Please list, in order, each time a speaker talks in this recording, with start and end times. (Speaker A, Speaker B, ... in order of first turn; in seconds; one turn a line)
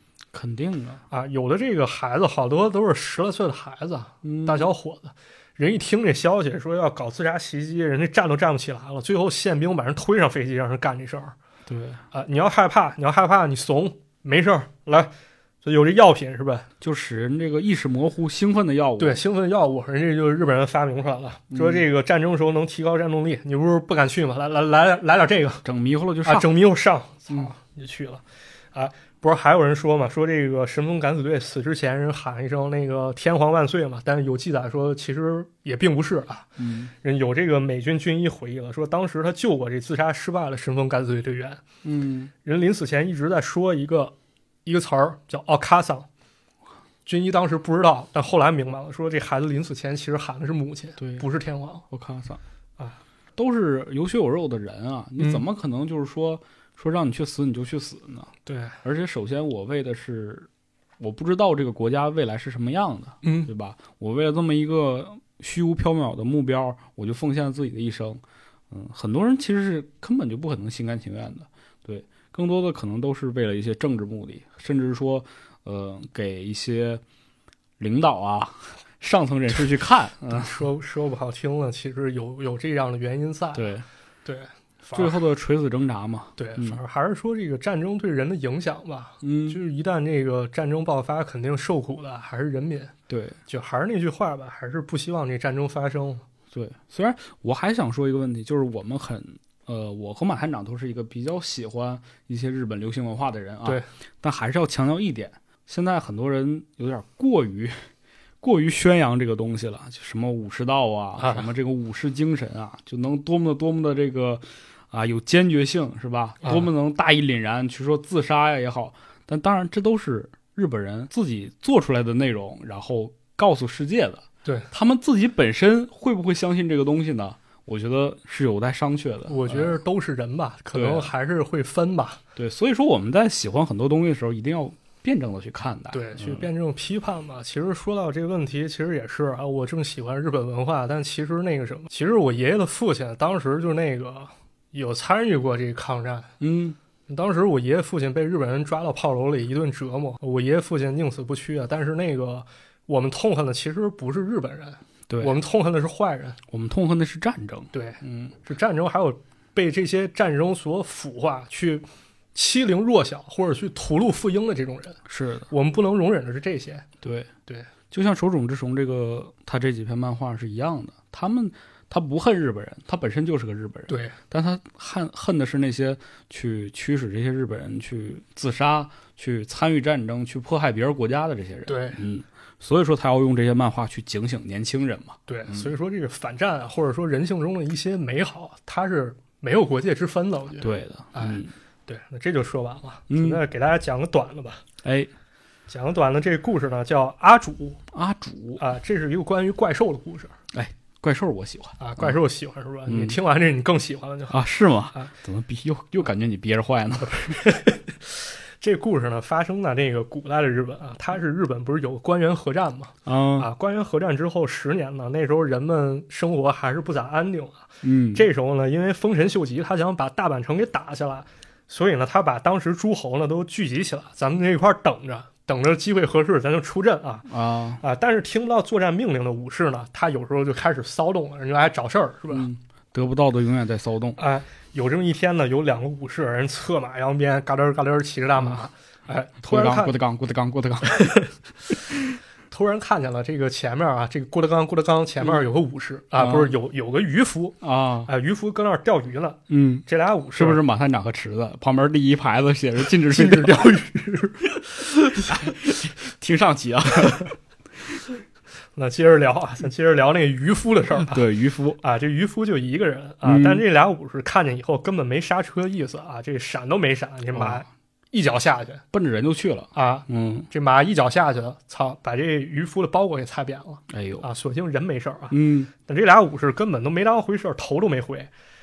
Speaker A: 0.3-1.0
Speaker B: 1.1-11.3
Speaker A: 4.2-4.7
Speaker A: 11.7-12.0
Speaker B: 12.1-15.1
Speaker B: 15.6-16.7
Speaker A: 16.8-19.2
Speaker B: 19.0-25.6
Speaker A: 21.5-21.8
Speaker A: 25.6-26.5
Speaker B: 26.2-28.2
Speaker B: 28.7-41.6
Speaker A: 36.6-36.9
Speaker A: 41.8-42.3
Speaker B: 42.4-44.1
Speaker B: 44.6-46.1
Speaker B: 47.0-51.8
Speaker A: 51.0-51.2
Speaker A: 51.9-52.4
Speaker A: 53.4-58.3
Speaker B: 55.2-55.4
Speaker B: 58.5-58.8
Speaker A: 58.8-60.5
Speaker A: 61.0-77.0
Speaker B: 63.2-63.5
Speaker A: 77.8-80.6
Speaker B: 80.3-83.7
Speaker A: 83.5-83.8
Speaker B: 84.2-85.2
Speaker A: 84.9-86.8
Speaker B: 86.4-92.9
Speaker A: 89.2-89.6
Speaker A: 93.1-93.4
Speaker B: 93.5-96.2
Speaker A: 96.5-107.8
Speaker A: 108.4-129.8
Speaker B: 111.2-111.5
Speaker B: 129.3-132.2
Speaker A: 130.7-131.1
Speaker A: 132.3-136.5
Speaker B: 135.9-146.3
Speaker A: 146.4-146.8
Speaker B: 147.1-156.4
Speaker A: 155.1-155.3
Speaker A: 156.5-158.3
Speaker B: 157.7-165.0
Speaker A: 165.1-165.5
Speaker B: 165.5-166.8
Speaker A: 167.0-167.3
Speaker A: 167.9-185.7
Speaker B: 173.9-174.2
Speaker B: 181.7-182.0
Speaker B: 185.3-194.6
Speaker A: 190.6-191.5
Speaker A: 193.1-193.4
Speaker A: 194.8-195.1
Speaker B: 195.7-197.8
Speaker A: 197.9-198.6
Speaker B: 198.6-200.3
Speaker A: 200.5-202.1
Speaker B: 201.8-204.4
Speaker A: 202.9-203.2
Speaker A: 204.3-207.4
Speaker B: 207.1-232.5
Speaker A: 213.1-213.5
Speaker A: 217.8-218.2
Speaker A: 227.3-227.8
Speaker A: 232.3-234.2
Speaker B: 234.2-239.9
Speaker A: 239.4-241.1
Speaker B: 240.9-241.3
Speaker B: 242.5-250.6
Speaker A: 246.2-246.5
Speaker A: 247.6-248.1
Speaker A: 249.5-253.8
Speaker B: 253.1-254.5
Speaker A: 255.1-257.3
Speaker B: 258.7-261.2
Speaker A: 261.1-261.8
Speaker B: 261.8-268.8
Speaker A: 263.2-263.6
Speaker A: 267.3-267.6
Speaker A: 268.9-270.5
Speaker B: 269.7-278.3
Speaker A: 273.9-274.2
Speaker A: 275.3-275.7